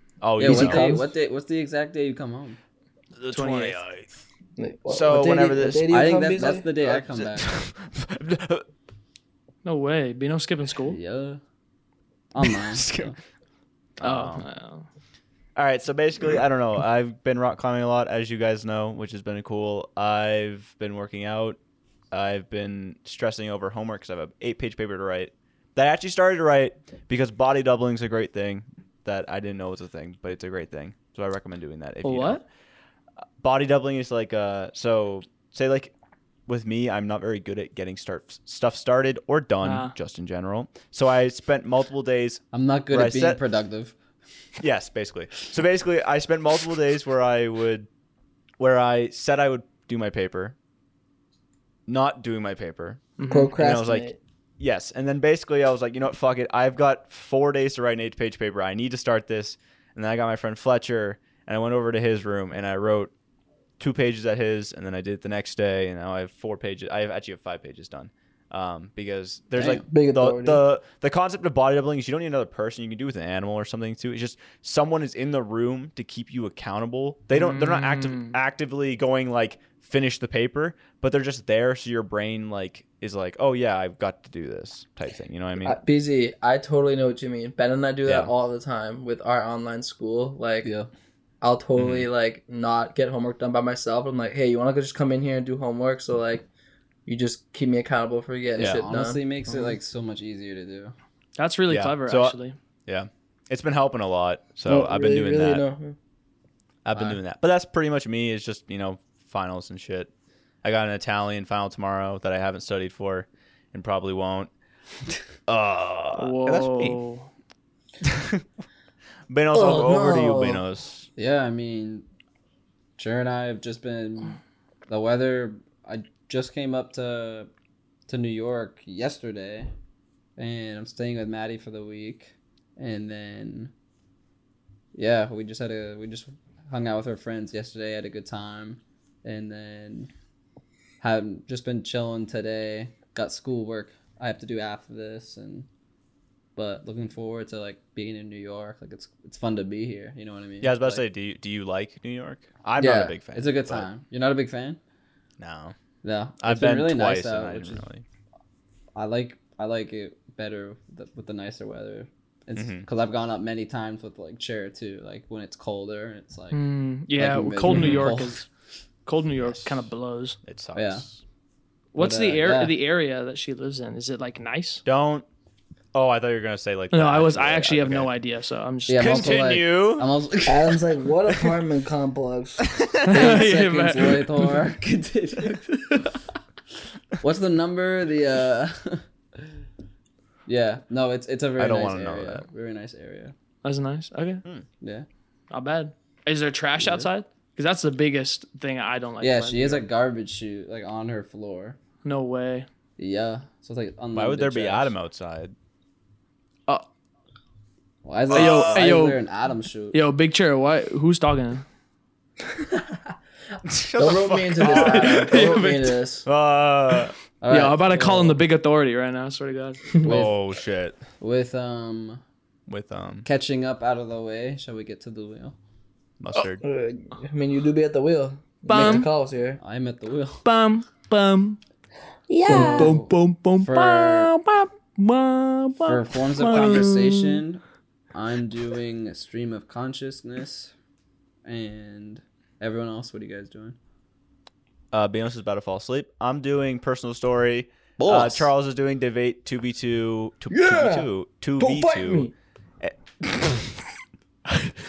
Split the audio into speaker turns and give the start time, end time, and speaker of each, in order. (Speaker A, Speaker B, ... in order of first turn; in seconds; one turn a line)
Speaker A: 0.2-0.8
Speaker B: 0.4-2.6
Speaker C: 0.4-1.0
Speaker A: 3.2-4.1
Speaker D: 3.3-3.8
Speaker C: 4.6-6.7
Speaker A: 4.9-6.0
Speaker B: 5.9-7.5
Speaker A: 6.8-8.7
Speaker D: 9.6-11.0
Speaker B: 10.9-11.4
Speaker B: 12.3-13.1
Speaker A: 12.5-13.1
Speaker A: 14.0-14.4
Speaker D: 14.0-14.8
Speaker A: 15.6-21.6
Speaker A: 22.1-32.4
Speaker D: 32.0-32.4
Speaker A: 33.4-35.9
Speaker A: 36.5-43.4
Speaker D: 39.6-39.9
Speaker B: 42.5-43.9
Speaker A: 44.6-47.9
Speaker A: 48.6-50.5
Speaker A: 51.9-54.1
Speaker D: 53.2-53.5
Speaker C: 53.3-54.2
Speaker A: 54.6-63.1
Speaker A: 63.8-85.8
Speaker C: 69.6-70.6
Speaker D: 77.3-78.4
Speaker C: 85.6-90.7
Speaker A: 88.0-88.3
Speaker B: 90.6-90.9
Speaker C: 91.4-96.5
Speaker A: 91.8-92.1
Speaker C: 97.0-99.8
Speaker B: 98.5-100.9
Speaker A: 98.6-98.8
Speaker D: 101.3-102.5
Speaker A: 101.7-102.3
Speaker A: 102.9-105.6
Speaker C: 104.7-106.0
Speaker A: 106.8-110.1
Speaker B: 106.9-107.2
Speaker A: 110.6-114.5
Speaker A: 115.5-117.0
Speaker D: 116.2-117.3
Speaker A: 118.0-118.4
Speaker A: 119.3-121.1
Speaker C: 119.5-120.6
Speaker B: 121.2-122.0
Speaker B: 123.0-127.5
Speaker B: 128.1-129.7
Speaker B: 130.4-133.7
Speaker B: 134.9-140.1
Speaker B: 141.0-145.7
Speaker B: 146.6-151.0
Speaker A: 150.6-153.9
Speaker B: 152.8-154.8
Speaker A: 155.4-155.7
Speaker B: 156.0-157.8
Speaker A: 156.4-158.0
Speaker B: 158.9-166.6
Speaker A: 162.5-162.8
Speaker D: 166.5-168.5
Speaker B: 167.1-168.4
Speaker D: 169.1-170.4
Speaker A: 170.4-171.2
Speaker B: 170.7-171.0
Speaker D: 171.9-174.8
Speaker B: 172.0-172.8
Speaker A: 174.8-175.2
Speaker A: 175.9-178.1
Speaker D: 176.9-179.4
Speaker B: 178.9-180.8
Speaker A: 179.0-180.1
Speaker C: 180.4-182.7
Speaker A: 182.6-183.1
Speaker D: 183.1-184.6
Speaker B: 183.1-185.6
Speaker D: 185.5-186.1
Speaker B: 187.2-189.4
Speaker B: 190.4-193.3
Speaker A: 191.6-192.4
Speaker D: 193.6-194.4
Speaker B: 194.8-195.1
Speaker D: 195.5-199.8
Speaker B: 196.8-197.1
Speaker B: 199.2-201.8
Speaker D: 202.0-202.7
Speaker B: 203.0-204.9
Speaker A: 204.1-205.5
Speaker B: 208.0-210.0
Speaker D: 208.3-209.2
Speaker A: 208.3-208.8
Speaker D: 209.9-211.6
Speaker A: 213.6-215.5
Speaker C: 214.0-216.2
Speaker D: 214.6-216.0
Speaker A: 216.2-217.1
Speaker B: 217.4-218.4
Speaker D: 217.5-219.9
Speaker A: 220.0-221.0
Speaker B: 220.0-220.3
Speaker B: 221.2-222.2
Speaker A: 222.7-223.3
Speaker B: 223.2-225.6
Speaker A: 226.2-226.6
Speaker C: 226.6-229.6
Speaker D: 228.7-229.1
Speaker B: 228.7-229.1
Speaker B: 229.6-230.4
Speaker D: 230.4-231.6
Speaker C: 232.3-232.9
Speaker D: 232.4-237.4
Speaker B: 232.4-234.3
Speaker B: 235.8-237.6
Speaker B: 238.1-240.7
Speaker B: 241.4-243.8
Speaker A: 244.9-252.3
Speaker B: 248.0-248.5
Speaker C: 250.5-251.1
Speaker C: 251.6-252.3
Speaker A: 252.8-253.7